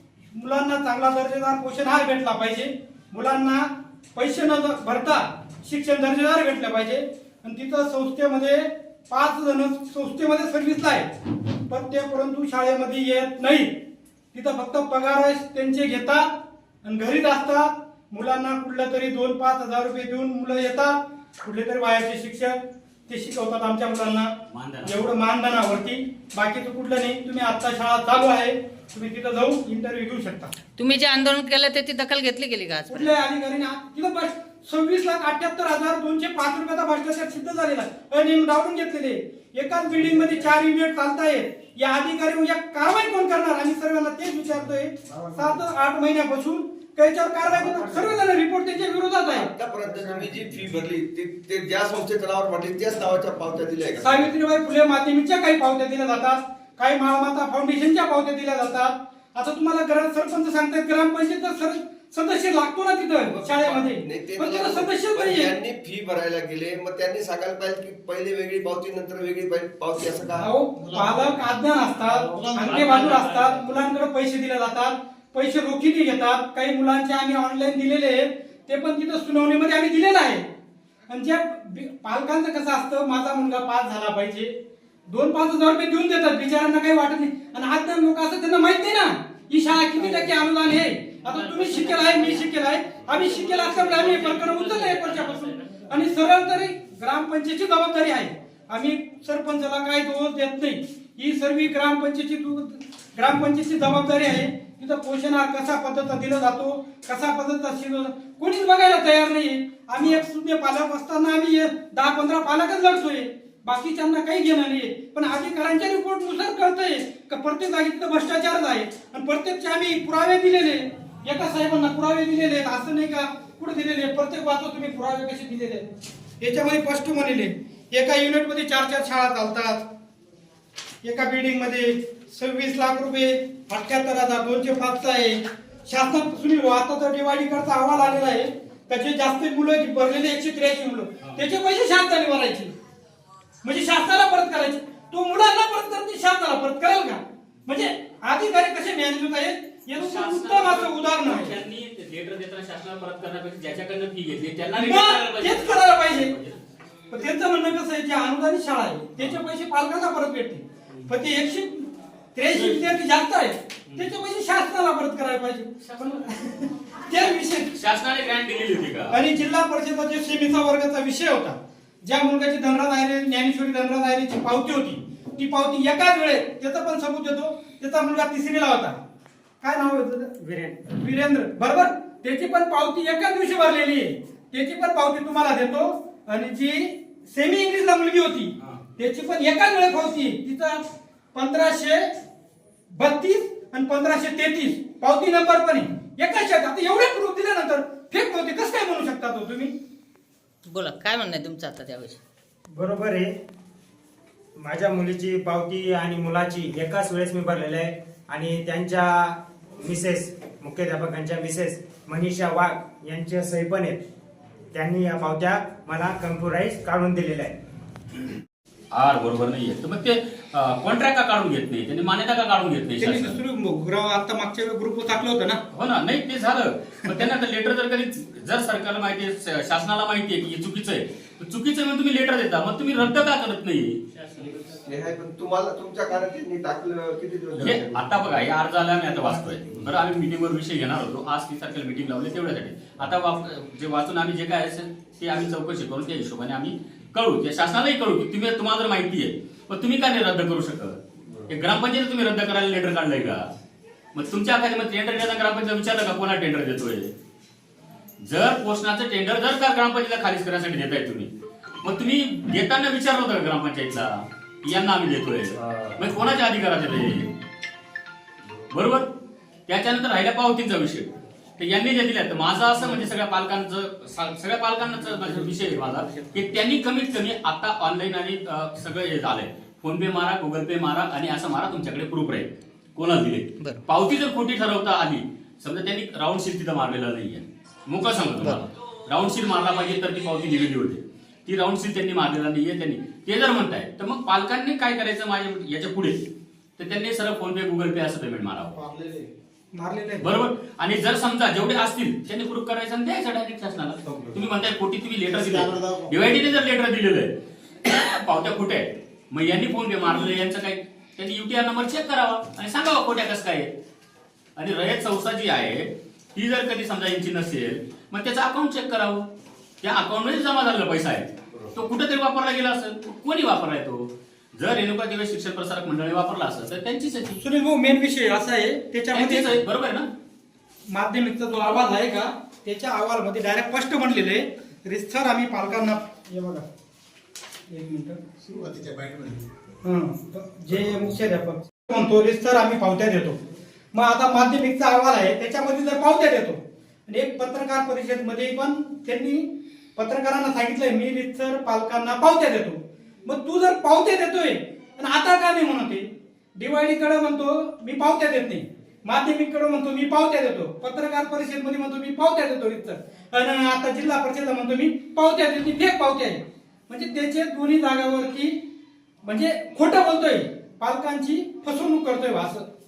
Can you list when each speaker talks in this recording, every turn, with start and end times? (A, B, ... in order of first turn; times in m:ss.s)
0:00.3-0:30.6 A
0:24.5-0:25.0 B
0:30.8-0:33.1 C
0:32.9-0:49.5 A
0:49.4-0:54.3 D
0:54.0-1:05.6 A
1:03.2-1:10.5 D
1:10.4-1:20.5 A
1:12.1-1:13.7 B
1:21.1-1:24.6 A
1:25.1-2:09.9 A
1:31.3-1:32.4 B
1:33.1-1:35.8 B
2:11.0-2:22.7 A
2:23.6-2:31.6 A
2:29.9-2:36.6 B
2:34.7-2:36.4 A
2:37.1-2:47.7 A
2:47.7-2:49.2 B
2:49.1-2:59.0 A
2:59.6-3:12.1 A
3:12.9-3:19.8 A
3:20.7-3:22.2 C
3:22.8-3:23.4 E
3:24.6-3:34.0 E
3:34.7-3:37.6 E
3:38.9-3:43.4 B
3:43.0-3:45.6 A
3:45.7-3:54.1 B
3:54.4-3:58.2 D
3:57.6-4:13.5 B
4:14.1-4:17.1 B
4:18.2-4:21.3 B
4:21.8-4:27.3 B
4:28.7-4:56.2 B
4:56.8-4:58.8 B
4:58.8-4:59.3 D
4:59.7-5:00.4 A
5:00.2-5:07.3 B
5:05.4-5:06.1 D
5:07.8-5:13.7 B
5:14.6-5:19.3 B
5:19.8-5:27.4 B
5:27.4-5:29.6 A
5:29.1-5:30.1 B
5:30.9-5:36.6 A
5:37.7-5:38.2 A
5:39.8-5:43.4 A
5:43.9-6:08.7 A
6:09.2-6:12.7 A